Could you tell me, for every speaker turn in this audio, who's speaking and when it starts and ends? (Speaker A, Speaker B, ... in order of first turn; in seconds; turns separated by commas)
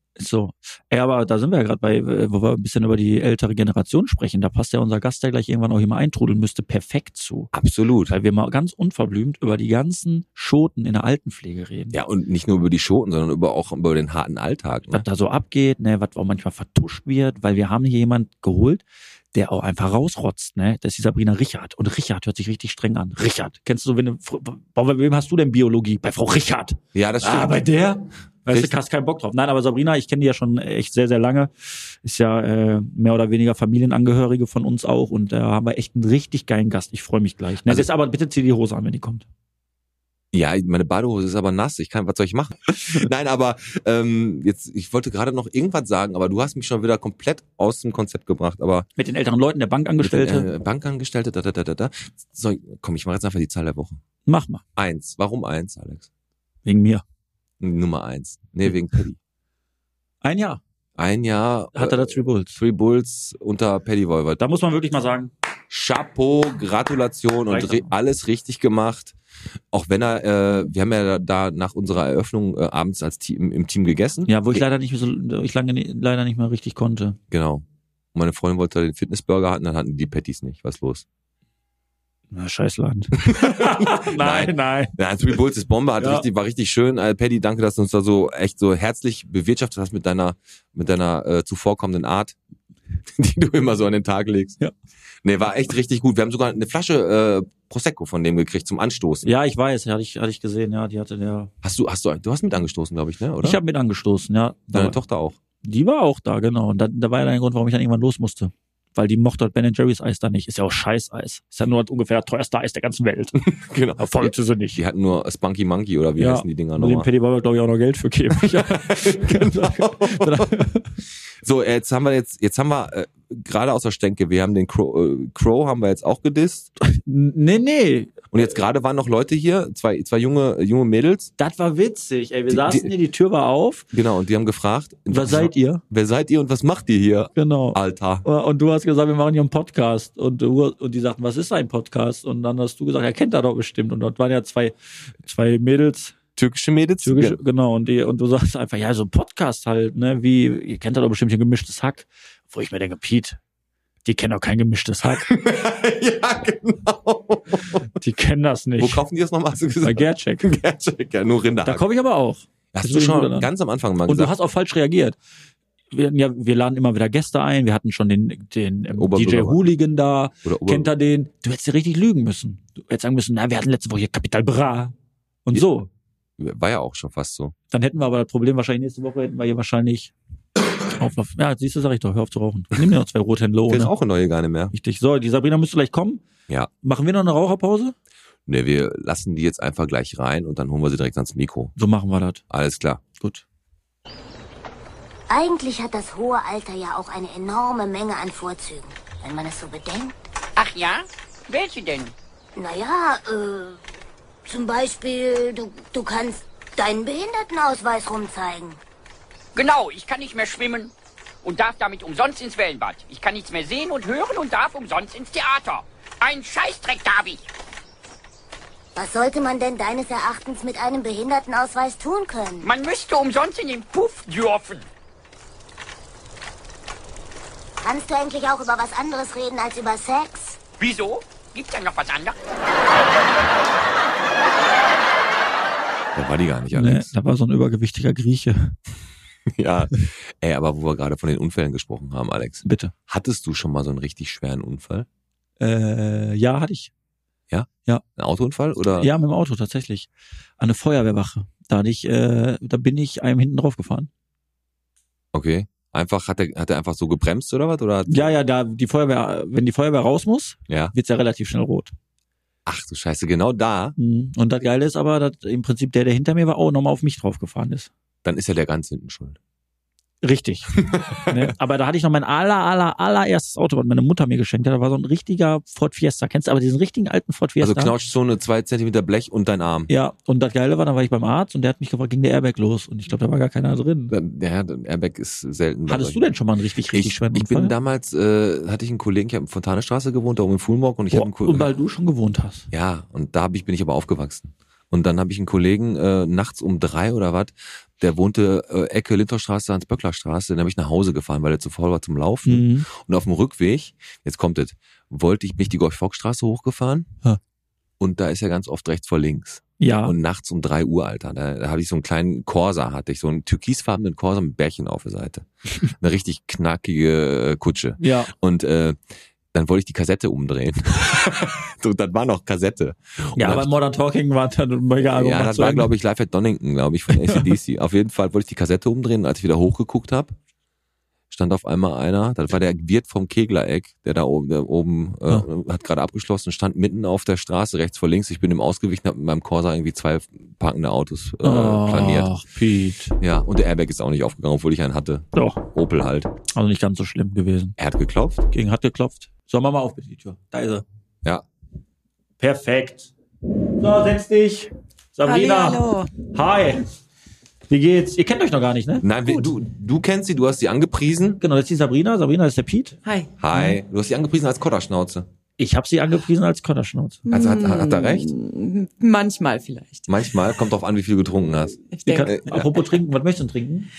Speaker A: 0.2-7.5, Speaker B: 7.5-8.2, Speaker A: 8.1-12.0, Speaker B: 11.9-15.0, Speaker A: 14.9-39.3, Speaker B: 26.9-27.7, Speaker B: 28.5-28.8, Speaker B: 40.3-48.9, Speaker A: 49.0-50.5, Speaker B: 50.0-54.0, Speaker A: 54.3-54.6, Speaker B: 54.8-56.1, Speaker A: 56.7-57.0, Speaker B: 57.6-59.2, Speaker A: 60.2-60.6, Speaker B: 61.0-64.4, Speaker A: 61.8-62.6, Speaker A: 64.4-65.3, Speaker B: 65.7-69.2, Speaker A: 67.5-67.9, Speaker B: 69.7-74.6, Speaker A: 74.3-77.2, Speaker B: 77.3-81.0, Speaker A: 82.3-85.0, Speaker B: 83.2-92.4, Speaker A: 86.0-86.3, Speaker B: 93.2-94.6, Speaker B: 95.2-99.3, Speaker A: 99.2-101.5, Speaker B: 101.6-103.6, Speaker A: 103.4-105.0, Speaker B: 104.7-105.4, Speaker A: 105.6-113.5, Speaker B: 113.4-117.1, Speaker A: 114.0-114.8, Speaker A: 116.2-120.9, Speaker B: 118.4-120.5, Speaker B: 121.4-126.7, Speaker A: 126.8-128.3, Speaker B: 128.3-131.3, Speaker A: 131.4-133.9, Speaker B: 132.5-132.9, Speaker B: 133.9-138.2, Speaker A: 135.1-135.8, Speaker A: 137.4-146.2, Speaker B: 146.4-147.4, Speaker A: 147.0-153.4, Speaker A: 154.0-155.3, Speaker B: 155.2-157.9, Speaker A: 158.0-159.0, Speaker B: 158.8-161.8, Speaker A: 159.8-160.5, Speaker A: 161.6-163.5, Speaker B: 162.7-164.3, Speaker A: 164.1-165.2, Speaker A: 165.9-174.9, Speaker B: 169.0-169.6, Speaker B: 170.4-170.9, Speaker A: 175.5-175.9, Speaker B: 176.4-177.5, Speaker A: 177.7-180.1, Speaker A: 181.0-183.9, Speaker B: 183.7-184.7, Speaker A: 184.7-186.2, Speaker A: 186.8-187.9, Speaker B: 188.5-191.7, Speaker A: 191.8-192.4, Speaker B: 192.5-193.0, Speaker A: 193.2-193.4, Speaker C: 195.3-200.2, Speaker D: 200.6-202.1, Speaker C: 202.6-203.8, Speaker C: 204.4-208.8, Speaker D: 209.6-217.4, Speaker C: 219.0-222.7, Speaker D: 222.6-224.9, Speaker C: 227.8-230.6, Speaker D: 230.8-232.4, Speaker B: 236.2-237.1, Speaker A: 236.7-238.8, Speaker B: 239.5-245.1, Speaker A: 242.6-242.9, Speaker A: 245.6-246.9, Speaker B: 247.5-249.1, Speaker A: 248.9-254.1, Speaker B: 255.3-258.3, Speaker A: 258.1-261.9, Speaker B: 260.7-260.9, Speaker B: 262.7-264.0, Speaker A: 264.0-267.9, Speaker B: 268.2-269.4, Speaker A: 270.2-277.9, Speaker B: 270.9-271.5, Speaker B: 277.6-279.9, Speaker A: 279.9-284.1, Speaker B: 284.1-286.3, Speaker A: 285.9-287.7, Speaker B: 286.9-291.7, Speaker A: 291.1-292.7, Speaker B: 292.7-307.1, Speaker A: 302.5-302.9, Speaker B: 308.0-319.0, Speaker A: 309.8-310.1, Speaker A: 318.0-318.3, Speaker B: 319.5-323.7, Speaker A: 323.4-325.9, Speaker B: 325.0-330.4, Speaker B: 331.3-342.4, Speaker A: 341.4-343.2, Speaker B: 343.2-346.3, Speaker A: 345.4-345.6, Speaker A: 346.5-347.8, Speaker B: 347.8-348.5, Speaker A: 348.5-350.9, Speaker A: 352.4-353.1, Speaker A: 353.8-356.9, Speaker E: 355.2-356.1, Speaker A: 357.7-359.3, Speaker B: 359.0-361.4, Speaker A: 361.4-363.0, Speaker E: 363.0-363.4, Speaker B: 363.4-365.3, Speaker A: 365.6-367.3, Speaker B: 367.3-368.3, Speaker E: 367.3-370.1, Speaker B: 370.1-372.7, Speaker E: 371.9-372.4, Speaker A: 372.1-373.9